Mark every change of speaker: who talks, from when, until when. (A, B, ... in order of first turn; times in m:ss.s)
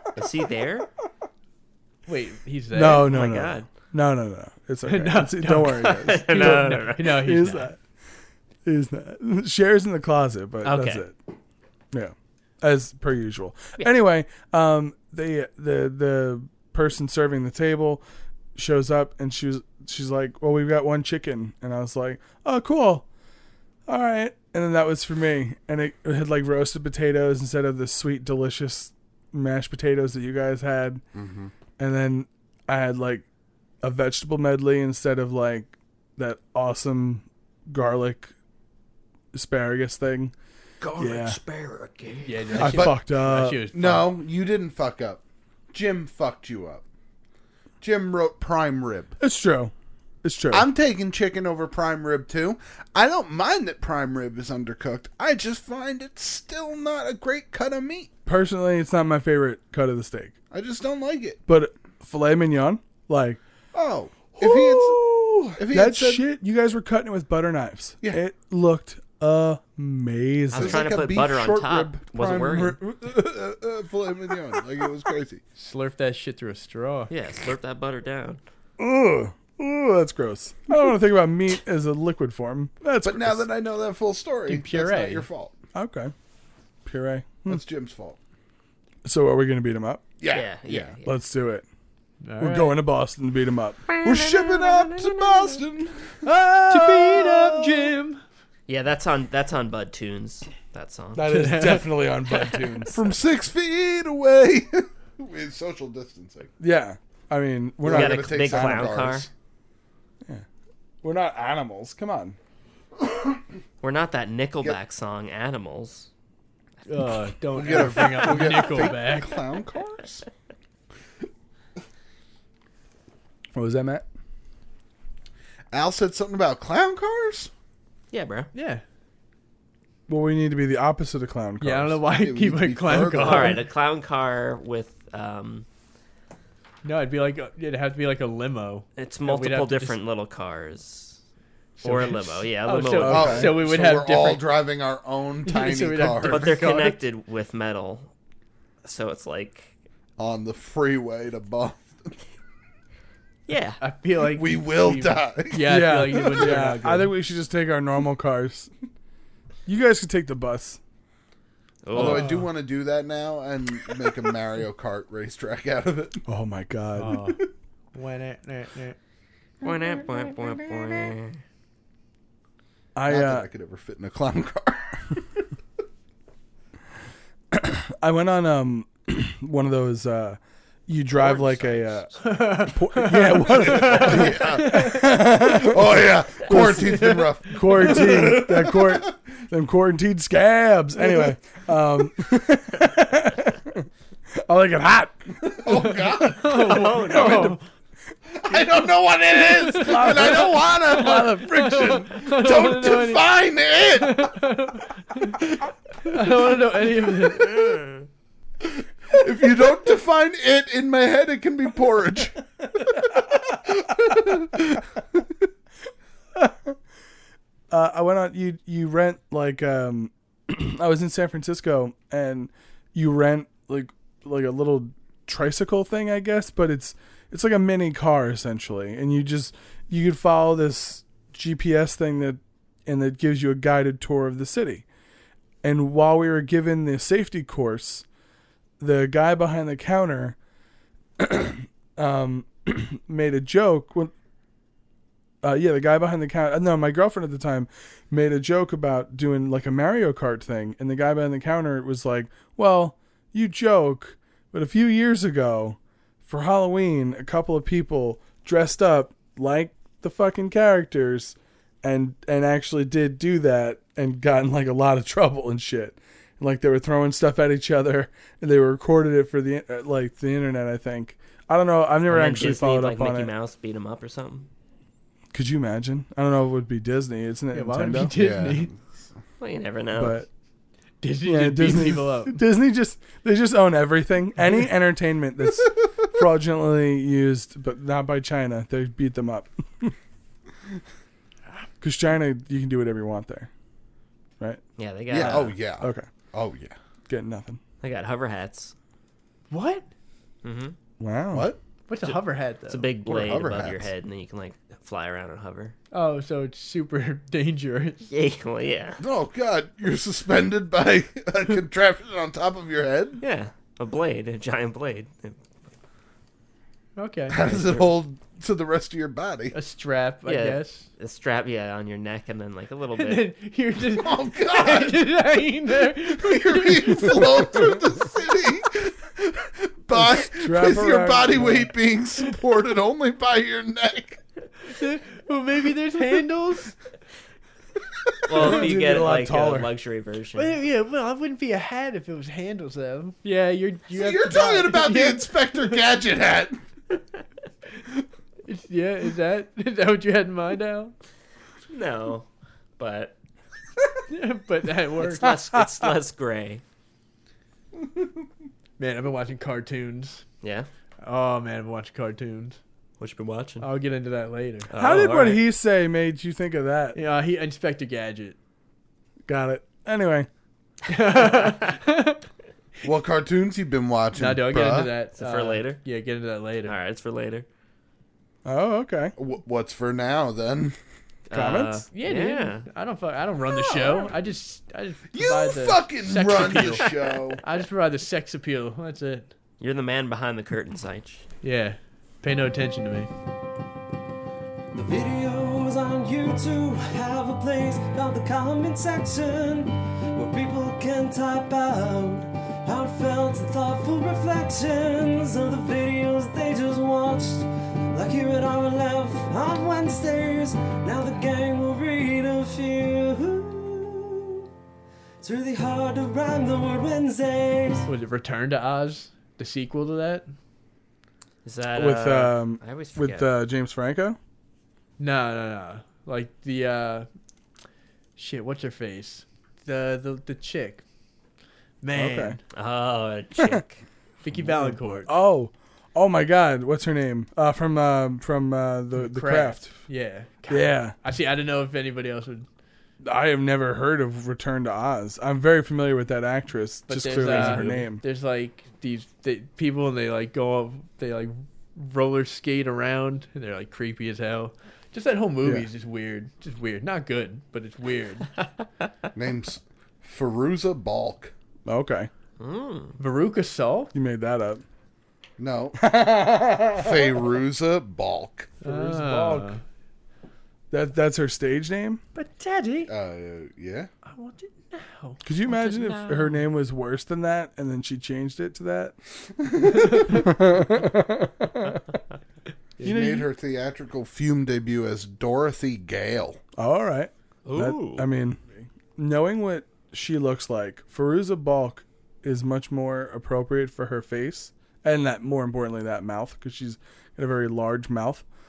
0:00.2-0:00.8 A
0:02.0-0:03.1 B
0:02.7-0:07.8 C
0:03.0-0:03.6 A
0:04.8-0:07.7 B
0:05.9-0:07.0 A
0:08.6-0:11.1 C
0:10.6-0:11.0 A
0:11.9-0:18.0 C
0:18.5-0:23.0 C
0:23.9-0:31.0 C
0:31.1-0:31.5 D
0:31.8-0:33.2 C
0:33.8-0:38.3 C
0:39.3-0:40.3 C
0:41.0-0:41.4 C
0:41.0-0:42.2 A
0:42.2-0:44.1 B
0:42.6-0:43.0 D
0:42.6-0:43.6 C
0:43.7-0:46.8 D
0:47.8-0:49.1 D
0:49.2-0:49.7 C
0:50.2-0:50.7 C
0:50.5-0:58.1 D
0:58.2-1:00.3 C
1:00.5-1:01.4 D
1:01.5-1:03.4 C
1:03.7-1:06.2 D
1:04.4-1:10.9 C
1:10.5-1:12.8 A
1:10.5-1:15.4 D
1:15.6-1:17.1 B
1:17.1-1:18.4 A
1:18.8-1:23.4 C
1:23.0-1:25.5 D
1:24.5-1:25.3 B
1:25.7-1:26.1 C
1:26.8-1:27.6 C
1:27.5-1:28.2 D
1:29.0-1:30.0 C
1:30.2-1:31.0 D
1:30.3-1:31.0 A
1:31.0-1:31.6 C
1:32.2-1:32.8 B
1:32.4-1:33.8 C
1:34.0-1:36.2 D
1:34.0-1:35.2 A
1:36.2-1:37.9 C
1:36.3-1:38.2 B
1:38.7-1:41.4 A
1:41.1-1:43.0 C
1:41.2-1:42.3 B
1:42.9-1:46.5 D
1:46.6-1:48.9 C
1:47.8-1:49.3 D
1:47.9-1:49.3 A
1:51.0-1:52.4 C
1:53.8-1:56.1 A
1:56.8-1:59.4 B
1:57.5-2:00.3 D
2:03.5-2:04.0 C
2:05.7-2:07.5 D
2:08.1-2:08.5 A
2:08.5-2:08.8 B
2:10.1-2:12.0 C
2:11.6-2:13.6 B
2:12.1-2:13.7 D
2:13.2-2:15.6 A
2:16.8-2:20.0 B
2:19.0-2:21.2 A
2:21.8-2:24.4 B
2:21.8-2:23.4 A
2:22.9-2:23.6 C
2:23.0-2:26.6 D
2:25.4-2:27.0 B
2:26.3-2:28.1 A
2:28.8-2:29.7 A
2:30.2-2:32.1 D
2:33.5-2:33.8 A
2:33.8-2:37.1 B
2:34.2-2:36.6 D
2:35.6-2:38.7 C
2:39.6-2:40.8 C
2:41.8-2:42.3 A
2:41.9-2:46.2 D
2:41.9-2:42.5 B
2:46.3-2:47.3 C
2:47.0-2:47.4 B
2:47.9-2:49.0 B
2:49.6-2:51.4 A
2:52.9-2:53.5 C
2:53.1-2:55.2 D
2:57.5-3:13.9 C
3:01.3-3:02.0 A
3:02.2-3:05.1 B
3:03.5-3:09.1 D
3:06.5-3:08.4 B
3:14.4-3:15.3 C
3:15.4-3:16.8 D
3:15.7-3:17.6 B
3:16.5-3:17.6 A
3:17.0-3:17.5 C
3:18.3-3:24.4 D
3:19.4-3:20.5 B
3:19.7-3:22.1 C
3:21.1-3:23.3 B
3:23.9-3:25.4 B
3:26.0-3:27.6 B
3:29.1-3:34.8 D
3:36.3-3:36.8 C
3:37.7-3:54.8 C
3:55.6-3:58.0 C
3:58.8-4:00.4 C
4:01.2-4:04.1 C
4:05.4-4:33.3 C
4:32.1-4:34.5 A
4:35.3-4:38.1 C
4:37.5-4:38.7 B
4:38.1-4:39.0 D
4:39.4-4:40.2 A
4:40.0-4:40.3 C
4:41.0-4:42.4 B
4:41.2-4:49.9 C
4:51.8-4:53.5 C
4:54.8-4:55.6 A
4:55.1-4:56.8 D
4:55.8-4:56.1 C
4:57.1-4:57.6 C
4:57.8-4:58.7 A
4:59.5-4:59.8 B
5:00.4-5:00.7 A
5:01.0-5:01.5 C
5:01.3-5:01.6 D
5:01.9-5:02.9 B
5:02.7-5:05.7 A
5:03.0-5:03.9 D
5:05.9-5:08.1 B
5:08.1-5:09.0 A
5:09.0-5:13.2 D
5:13.2-5:15.4 A
5:17.0-5:17.8 B
5:17.3-5:19.5 D
5:19.5-5:20.9 B
5:20.2-5:23.2 A
5:23.0-5:27.8 B
5:23.9-5:25.0 D
5:26.1-5:34.2 D
5:29.9-5:31.7 C
5:34.7-5:36.8 B
5:38.3-5:40.6 A
5:38.3-5:39.7 C
5:40.3-5:45.8 B
5:43.9-5:46.6 D
5:48.4-5:50.9 B
5:51.7-5:52.3 A
5:52.8-5:53.2 A
5:54.1-5:55.3 B
5:55.0-5:56.6 A
5:55.2-5:55.9 C
5:58.8-6:00.2 B
6:00.4-6:00.7 A
6:01.0-6:02.6 B
6:03.0-6:03.6 A
6:03.6-6:04.7 B
6:04.7-6:05.4 A
6:04.8-6:07.0 C
6:06.9-6:08.4 B
6:09.3-6:10.3 C
6:10.9-6:12.2 B
6:12.8-6:14.9 D
6:14.1-6:16.8 B
6:15.1-6:15.8 A
6:16.6-6:17.4 A
6:18.4-6:19.1 C
6:19.2-6:20.7 D
6:21.3-6:22.6 A
6:21.3-6:21.8 C
6:21.9-6:29.3 B
6:23.6-6:24.0 D
6:25.1-6:27.4 D
6:29.6-6:31.2 A
6:31.4-6:33.1 B
6:34.7-6:54.4 E
6:55.2-6:57.9 E
6:57.8-7:00.3 B
7:01.4-7:03.3 A
7:01.8-7:04.2 C
7:05.0-7:07.1 B
7:08.2-7:10.8 B
7:11.8-7:12.4 B
7:11.9-7:12.4 C
7:12.5-7:13.8 A
7:14.2-7:15.1 B
7:14.4-7:19.8 C
7:19.0-7:22.5 B
7:20.5-7:21.0 C
7:23.0-7:28.0 C
7:26.9-7:38.4 B
7:27.3-7:27.6 A
7:39.1-7:41.3 D
7:41.6-7:42.1 C
7:42.4-7:43.0 A
7:43.0-7:43.9 B
7:43.9-7:44.6 C
7:45.4-7:45.9 D
7:45.8-7:47.1 C
7:46.7-7:48.6 D
7:48.6-7:49.6 B
7:48.6-7:49.5 C
7:50.7-7:52.0 C
7:52.1-7:52.9 B
7:52.9-7:53.9 D
7:54.0-7:55.2 B
7:55.2-7:58.9 C
7:55.5-7:56.3 A
7:59.5-8:00.2 D
7:59.9-8:01.9 C
8:02.8-8:06.4 D
8:02.8-8:03.3 C
8:06.6-8:18.2 C
8:07.4-8:08.1 A